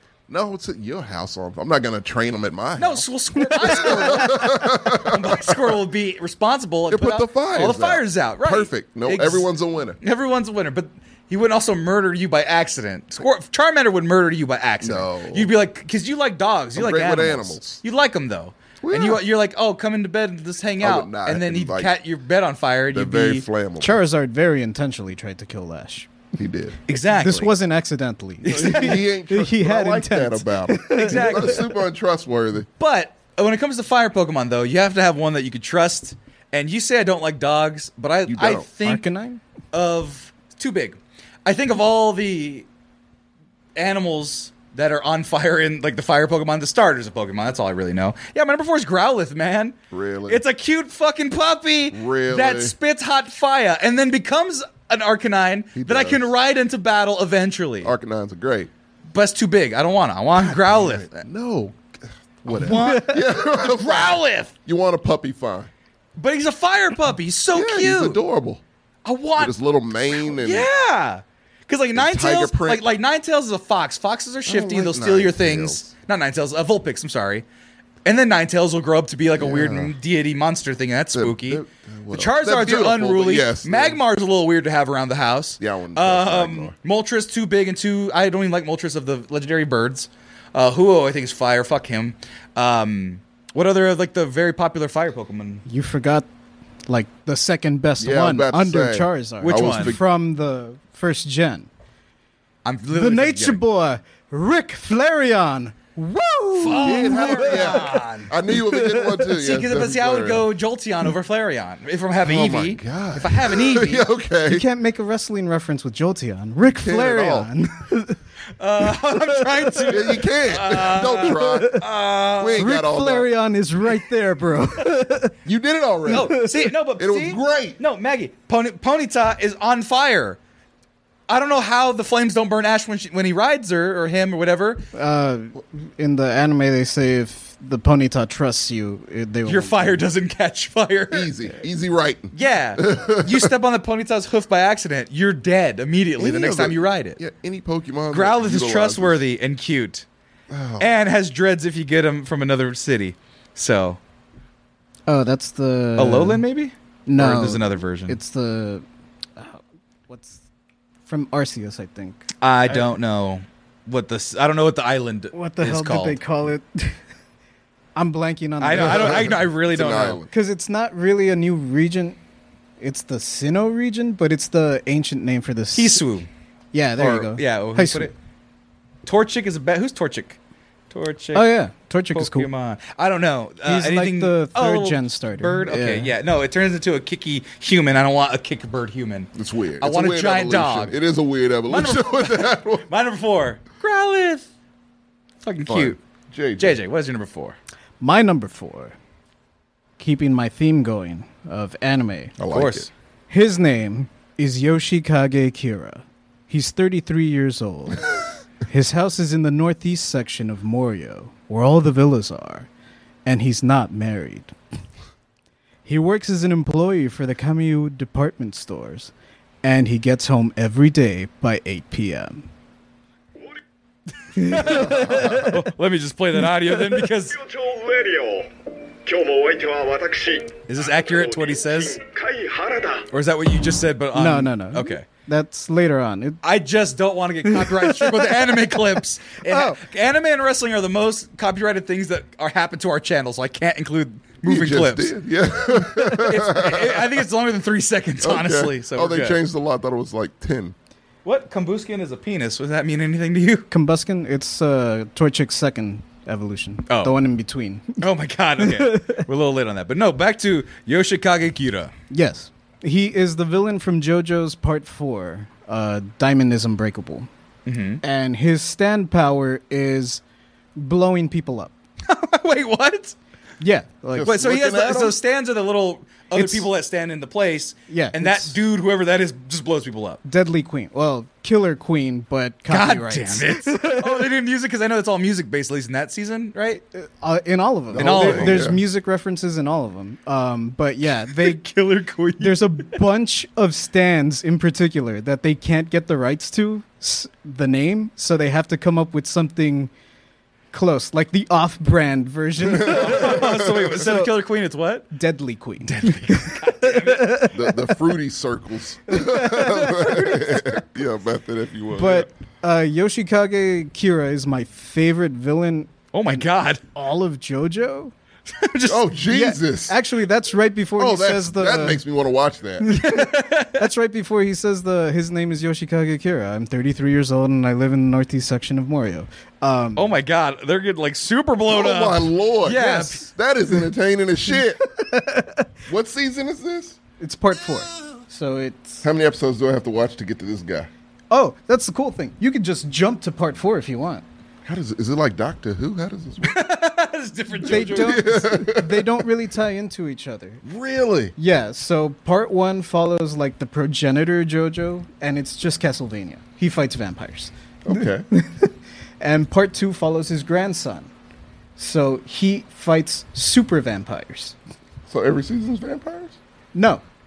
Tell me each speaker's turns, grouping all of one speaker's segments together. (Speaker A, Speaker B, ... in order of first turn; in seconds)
Speaker A: 0.3-5.8, 6.9-10.0, 14.8-15.5, 16.7-17.8, 18.8-19.2, 20.8-21.9, 22.9-24.0, 26.3-26.8, 28.5-32.7, 38.3-38.6, 49.9-50.4, 51.9-52.7, 55.7-56.2, 57.8-58.7, 60.3-65.7, 67.5-68.6, 69.4-70.7, 71.9-72.8, 74.5-75.8, 79.3-79.9, 81.1-84.0, 85.6-86.7, 98.0-100.0, 106.8-110.5, 112.2-114.6, 116.8-117.5, 119.9-121.8, 122.4-123.3, 125.4-126.5, 127.0-127.8, 141.1-143.5, 146.2-149.2, 150.5-150.9, 168.7-170.3, 189.3-192.8, 195.7-196.8, 202.4-202.9, 224.7-225.5, 244.4-247.2, 248.2-250.7, 274.1-275.2, 287.9-288.8, 302.6-303.9, 307.5-312.3, 318.9-320.0, 321.0-322.9, 331.7-334.8, 335.9-337.0, 339.0-340.9, 344.6-346.6, 347.6-349.3, 350.6-351.3, 357.8-358.3, 365.1-366.4
Speaker B: 2.8-9.5, 10.0-23.4, 26.9-27.5, 28.4-29.0, 30.9-31.7, 32.8-39.0, 39.7-42.6, 43.8-49.8, 50.3-57.9, 59.1-61.2, 62.5-64.5, 66.2-68.2, 69.0-69.5, 70.1-77.4, 78.0-95.6, 99.4-99.9, 102.6-103.6, 106.5-108.3, 109.3-114.1, 118.6-122.7, 126.1-130.4, 131.3-134.8, 139.4-141.3, 142.3-147.2, 148.1-150.1, 150.8-154.0, 156.0-158.2, 162.4-166.2, 168.6-170.2, 175.7-176.3, 177.0-178.1, 179.0-180.4, 180.9-181.5, 182.1-189.3, 189.8-191.0, 191.7-194.5, 195.4-196.0, 196.6-197.6, 202.5-202.9, 224.4-227.4, 230.7-232.0, 233.1-235.0, 236.4-245.1, 245.7-249.4, 251.2-253.7, 256.9-257.1, 258.0-261.9, 267.6-268.0, 272.0-273.1, 274.2-280.2, 282.7-286.8, 287.9-288.6, 291.2-293.0, 302.9-305.1, 305.8-307.4, 316.1-316.8, 318.5-319.1, 322.9-323.9, 329.9-333.3, 346.4-348.3
Speaker C: 23.8-26.1, 27.1-31.6, 38.8-39.4, 62.7-63.2, 95.7-96.2, 96.9-101.7, 102.9-109.2, 114.5-118.2, 119.0-119.9, 122.6-125.3, 126.1-126.6, 134.9-140.0, 155.1-156.4, 157.1-158.8, 159.4-160.4, 161.1-162.8, 165.3-167.0, 167.9-169.4, 170.3-172.2, 172.8-176.0, 176.7-178.1, 181.3-182.5, 183.6-186.1, 198.0-198.9, 200.0-202.3, 203.3-208.1, 208.7-212.7, 213.2-214.5, 215.8-219.1, 219.6-222.4, 224.3-225.6, 226.7-227.0, 234.1-236.4, 237.5-238.8, 239.5-239.8, 253.7-258.0, 258.6-259.2, 262.1-267.3, 268.0-270.2, 270.8-271.7, 273.6-274.3, 276.3-276.6, 277.9-278.6, 280.2-284.2, 286.9-291.6, 292.4-299.9, 300.7-304.3, 305.1-307.6, 309.1-310.8, 311.9-318.1, 319.3-322.0, 322.8-330.1, 332.9-333.2, 334.9-335.7, 337.2-339.1, 341.3-344.2, 347.6-350.6, 351.4-361.1, 361.8-364.5, 366.7-367.0
Speaker D: 227.3-228.5, 229.0-233.1